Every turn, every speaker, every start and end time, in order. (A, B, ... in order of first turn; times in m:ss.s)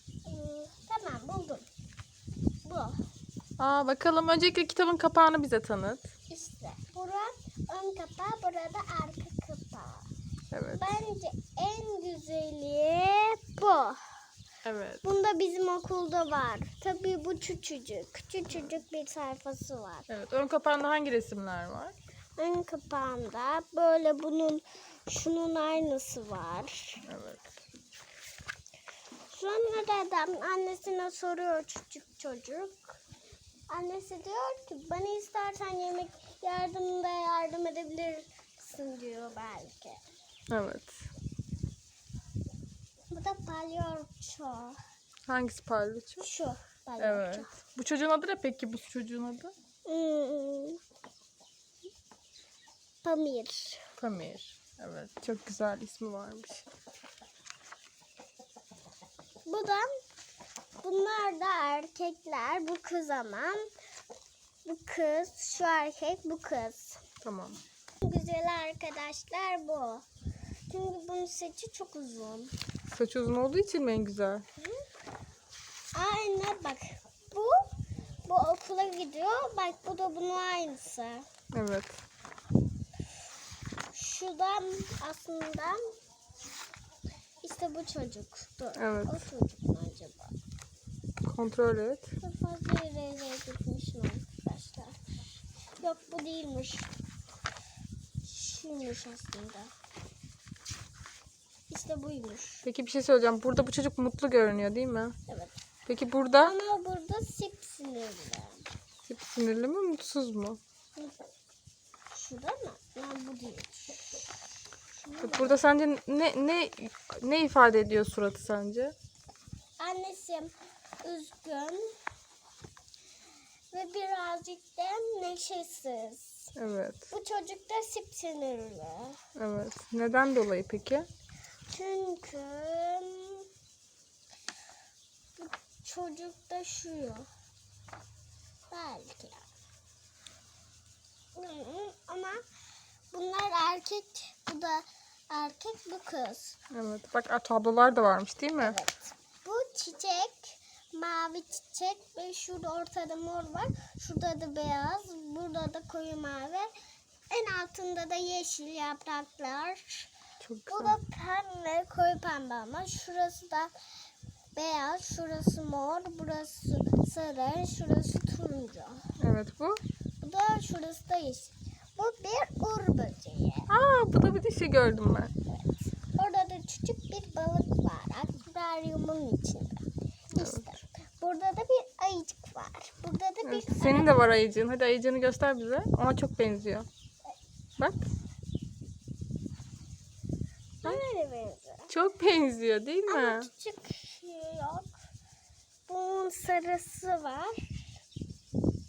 0:00.2-0:01.7 A
0:02.6-0:03.0 A
0:03.6-0:06.1 B
0:06.3-0:10.1 A
0:10.5-0:11.0 B
0:10.7-0:14.1 A
0:14.6-0:15.0 B
0:15.0-0:20.1 A
0:20.1-0:22.0 B
0:22.4-0:27.0 A
0:27.0-0:27.5 B
0:29.3-0:33.0 A
0:33.7-0:40.0 A
0:40.5-0:41.1 B
0:43.1-0:44.8 A
0:45.3-0:46.2 B
0:46.2-0:47.5 A
0:47.0-0:49.5 B
0:49.8-0:50.8 A
0:53.0-0:53.9 A
0:54.0-0:56.6 B
0:59.4-0:59.9 A
1:00.8-1:03.7 A
1:04.6-1:07.0 A
1:07.2-1:07.6 B
1:08.0-1:10.0 A
1:10.7-1:12.5 A
1:12.9-1:14.4 B
1:15.9-1:17.7 A
1:18.2-1:21.3 A
1:21.5-1:22.0 B
1:23.9-1:25.8 A
1:27.4-1:30.3 A
1:28.8-1:29.2 B
1:31.2-1:32.1 B
1:32.2-1:36.9 A
1:38.2-1:39.7 A
1:41.7-1:42.6 A
1:42.6-1:45.1 B
1:45.3-1:45.6 A
1:45.9-1:46.5 B
1:46.4-1:48.7 A
1:49.0-1:50.6 B
1:52.1-1:54.4 A
1:55.0-1:55.6 A
1:55.2-1:58.9 B
1:59.8-2:01.9 A
2:03.7-2:06.5 A
2:06.6-2:07.1 B
2:07.1-2:09.2 A
2:09.4-2:11.1 B
2:11.7-2:13.5 A
2:15.4-2:17.3 A
2:18.7-2:19.4 A
2:21.3-2:22.4 A
2:23.1-2:26.6 A
2:26.7-2:28.8 B
2:28.6-2:36.7 A
2:37.3-2:40.1 A
2:40.4-2:40.9 B
2:40.7-2:43.7 A
2:44.6-2:49.0 A
2:49.2-2:49.8 B
2:50.2-2:53.7 A
2:53.7-2:55.3 B
2:55.5-3:04.2 A
3:00.4-3:00.6 B
3:03.4-3:06.9 B
3:07.8-3:08.1 B
3:10.8-3:11.9 A
3:11.9-3:13.5 B
3:13.1-3:15.0 A
3:15.9-3:17.6 A